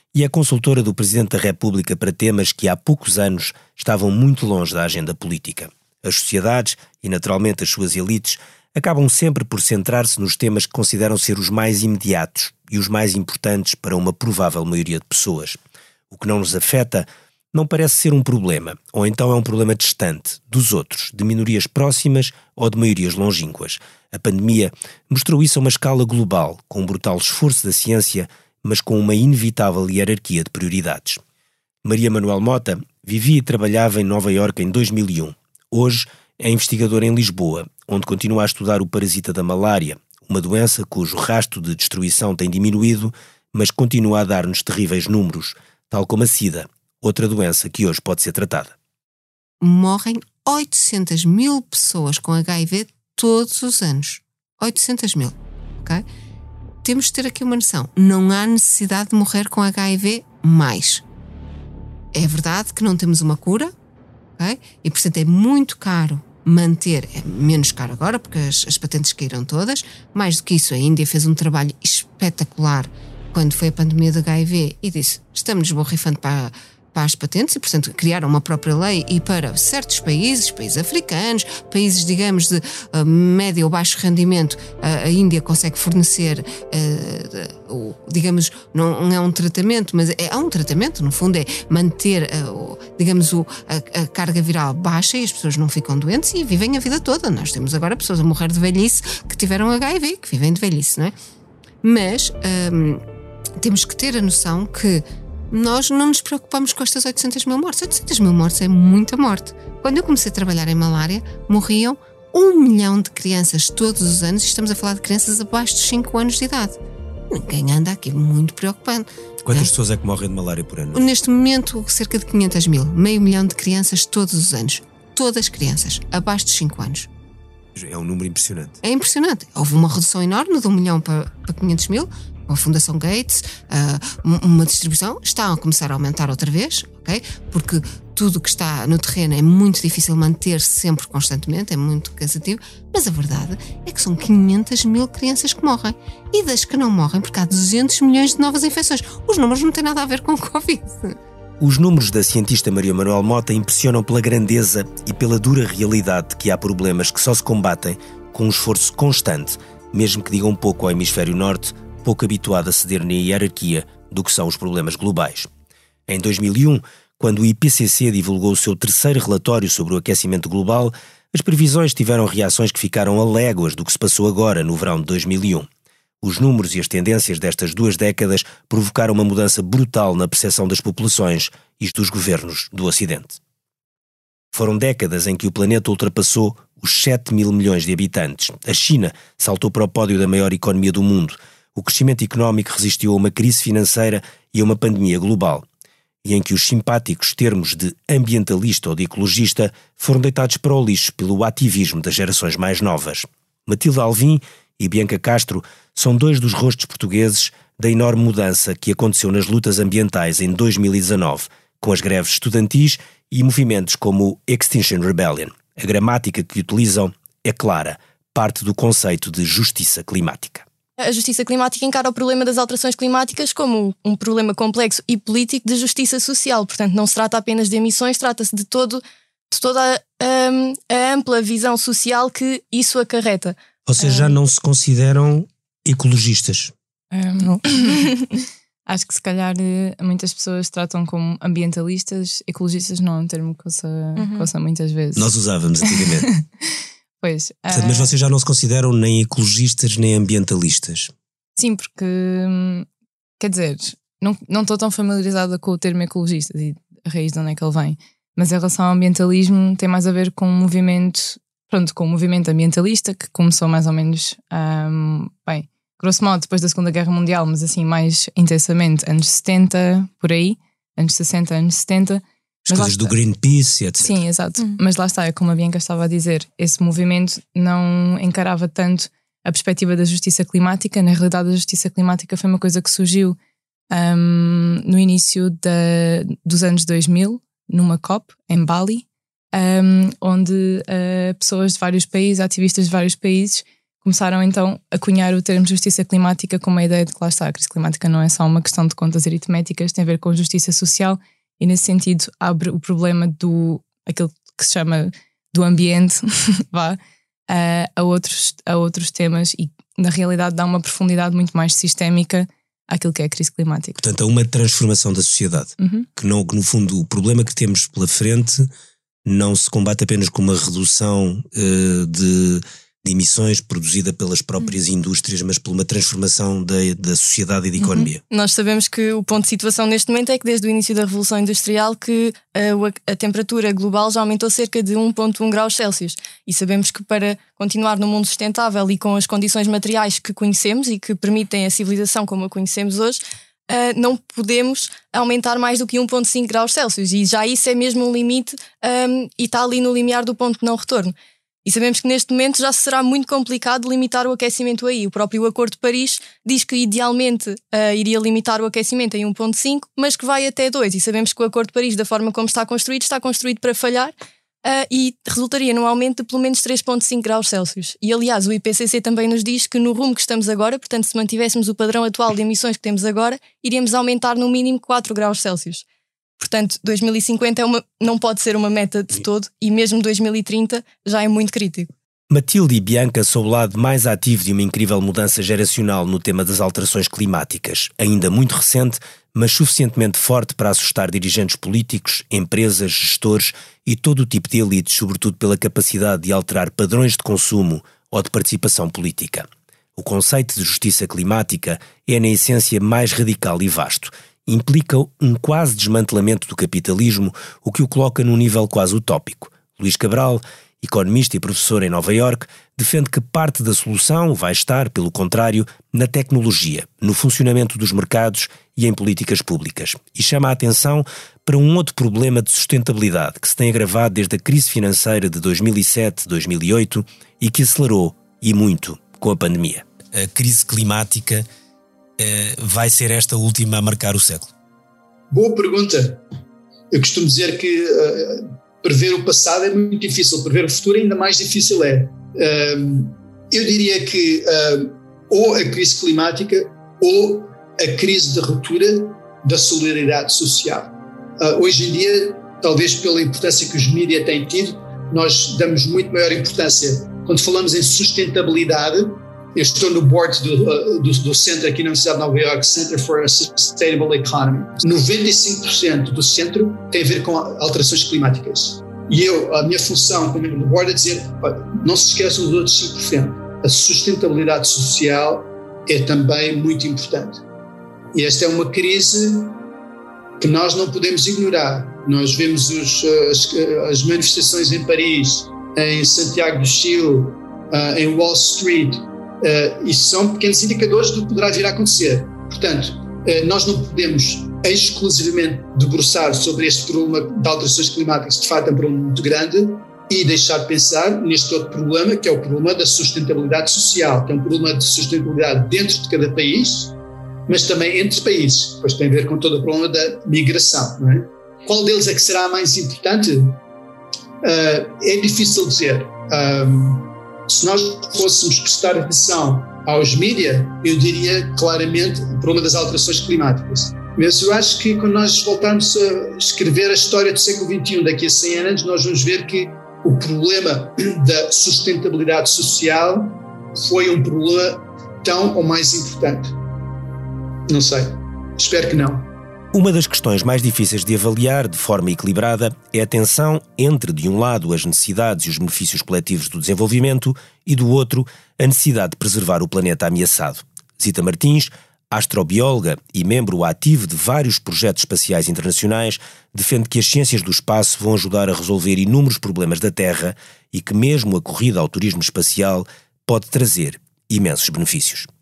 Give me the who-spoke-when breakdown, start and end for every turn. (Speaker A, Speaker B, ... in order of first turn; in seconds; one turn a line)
Speaker A: 0.1-15.6
Speaker A: 16.1-31.2
Speaker A: 31.9-48.7
Speaker B: 49.6-56.0
Speaker B: 56.8-61.0
Speaker B: 62.1-63.7
Speaker B: 64.4-101.2
Speaker B: 101.8-103.0
Speaker B: 103.6-116.8
Speaker B: 117.3-119.7
Speaker A: 119.5-121.0
Speaker B: 120.9-127.1
Speaker A: 127.8-128.8
Speaker B: 128.8-151.2
Speaker A: 151.6-165.5
Speaker A: 166.1-175.7
Speaker A: 176.2-183.4
Speaker A: 184.5-195.7
Speaker A: 196.2-220.7
Speaker C: 221.0-233.6
Speaker A: 233.9-236.7
Speaker D: 237.1-238.1
Speaker D: 238.9-245.3
Speaker A: 245.2-246.2
Speaker D: 245.8-246.1
Speaker D: 247.2-248.2
Speaker A: 247.7-251.1
Speaker D: 251.6-252.9
Speaker D: 253.4-273.1
Speaker A: 272.7-274.1
Speaker D: 274.0-283.4
Speaker D: 283.9-307.0
Speaker D: 307.5-314.0
Speaker A: 314.0-318.7
Speaker D: 315.8-316.1
Speaker A: 319.3-328.2
Speaker C: 327.8-375.8
Speaker C: 376.4-381.9
Speaker A: 382.3-431.5
Speaker A: 432.2-434.5
Speaker E: 435.3-436.2
Speaker E: 436.9-477.4
Speaker E: 478.1-479.6
Speaker E: 480.4-506.9
Speaker E: 507.5-513.6
Speaker E: 514.4-536.5
Speaker E: 537.7-539.3
Speaker A: 539.7-565.3